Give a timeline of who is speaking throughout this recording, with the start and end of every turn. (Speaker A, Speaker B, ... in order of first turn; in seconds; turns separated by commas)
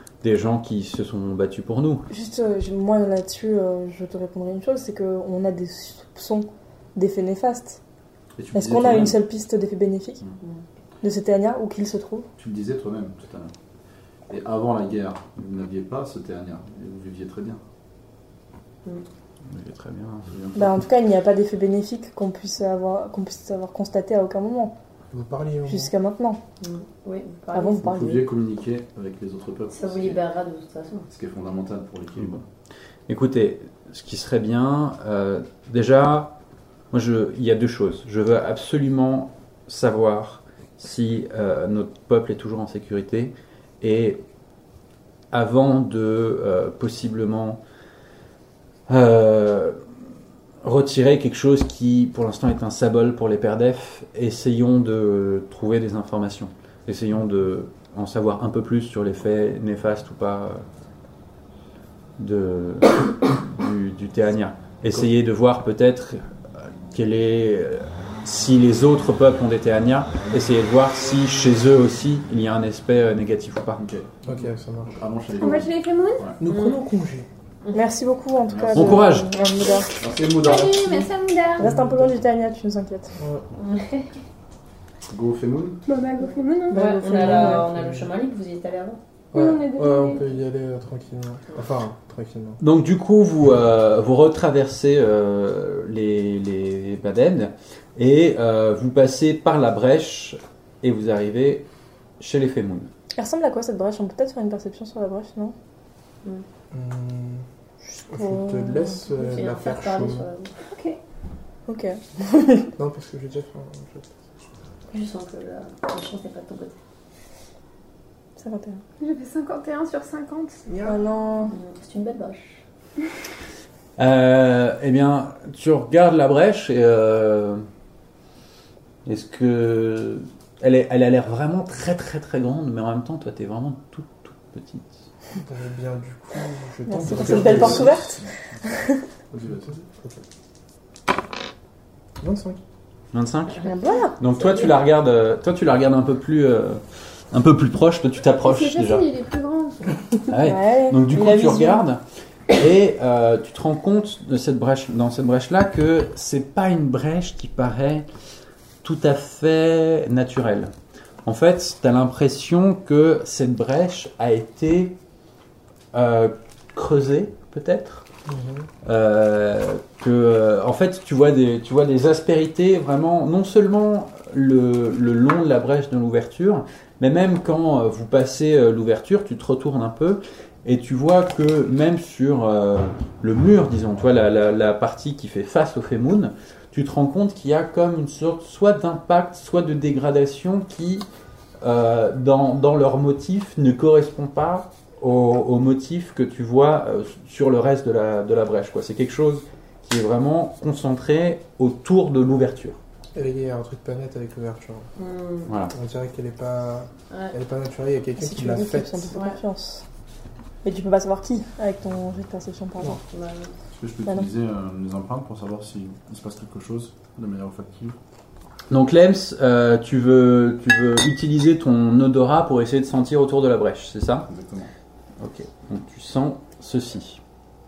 Speaker A: 0.2-2.1, Speaker B: 2.1-7.8, Speaker C: 8.4-9.2, Speaker B: 8.5-10.2, Speaker B: 11.0-12.3, Speaker C: 12.4-13.5, Speaker C: 14.3-17.6, Speaker A: 19.5-20.3, Speaker C: 20.3-20.9, Speaker B: 20.6-24.8, Speaker D: 25.1-25.9, Speaker B: 25.6-26.4, Speaker E: 26.6-27.8, Speaker B: 27.5-28.3, Speaker C: 27.8-30.2, Speaker E: 29.7-31.1, Speaker C: 31.1-32.4, Speaker A: 33.1-36.4, Speaker A: 36.9-44.2, Speaker A: 45.3-47.6, Speaker A: 48.9-49.8, Speaker A: 50.6-60.6, Speaker A: 62.2-66.2, Speaker A: 66.9-73.8, Speaker C: 73.8-76.4, Speaker D: 74.3-74.9, Speaker F: 75.3-76.3, Speaker D: 76.4-77.3, Speaker E: 76.5-76.8, Speaker B: 77.7-79.9, Speaker C: 78.5-79.1, Speaker A: 78.7-79.3, Speaker C: 80.0-81.1, Speaker F: 80.4-81.7, Speaker D: 81.6-82.2, Speaker B: 81.6-83.1, Speaker D: 83.2-83.4, Speaker E: 83.5-84.2, Speaker C: 85.1-85.8, Speaker F: 85.9-87.5, Speaker B: 86.7-87.7, Speaker E: 86.7-89.0, Speaker D: 87.6-88.1, Speaker D: 89.3-92.6, Speaker F: 89.3-90.2, Speaker A: 92.6-101.7, Speaker A: 102.2-102.9, Speaker B: 103.2-105.5, Speaker D: 106.7-107.5, Speaker B: 107.8-109.0, Speaker D: 108.1-110.3, Speaker E: 109.1-110.5, Speaker F: 110.7-111.0, Speaker B: 111.7-112.7, Speaker D: 112.8-114.1, Speaker E: 114.9-116.8, Speaker B: 118.4-118.8, Speaker F: 119.0-120.7, Speaker D: 120.7-121.0, Speaker B: 120.8-121.5, Speaker E: 121.5-122.6, Speaker A: 124.0-127.6, Speaker A: 129.1-135.1, Speaker D: 135.4-138.1, Speaker B: 136.9-139.0, Speaker C: 137.1-138.3, Speaker C: 139.3-139.8, Speaker D: 139.5-140.2, Speaker D: 142.2-142.6, Speaker A: 143.1-149.1, Speaker B: 143.6-144.2, Speaker F: 148.4-149.8, Speaker A: 150.3-158.1, Speaker B: 150.4-151.8, Speaker A: 158.8-160.7, Speaker A: 161.3-165.0, Speaker A: 165.9-168.1, Speaker D: 168.3-168.7, Speaker A: 168.8-191.1, Speaker A: 191.6-202.8, Speaker D: 203.1-204.9, Speaker E: 205.0-205.5, Speaker A: 205.5-205.7, Speaker D: 205.7-209.1, Speaker B: 208.2-209.8, Speaker E: 209.1-209.4, Speaker B: 210.6-213.0, Speaker E: 213.1-213.5, Speaker C: 213.7-218.0, Speaker A: 218.7-224.3, Speaker C: 224.3-224.7, Speaker A: 225.2-227.2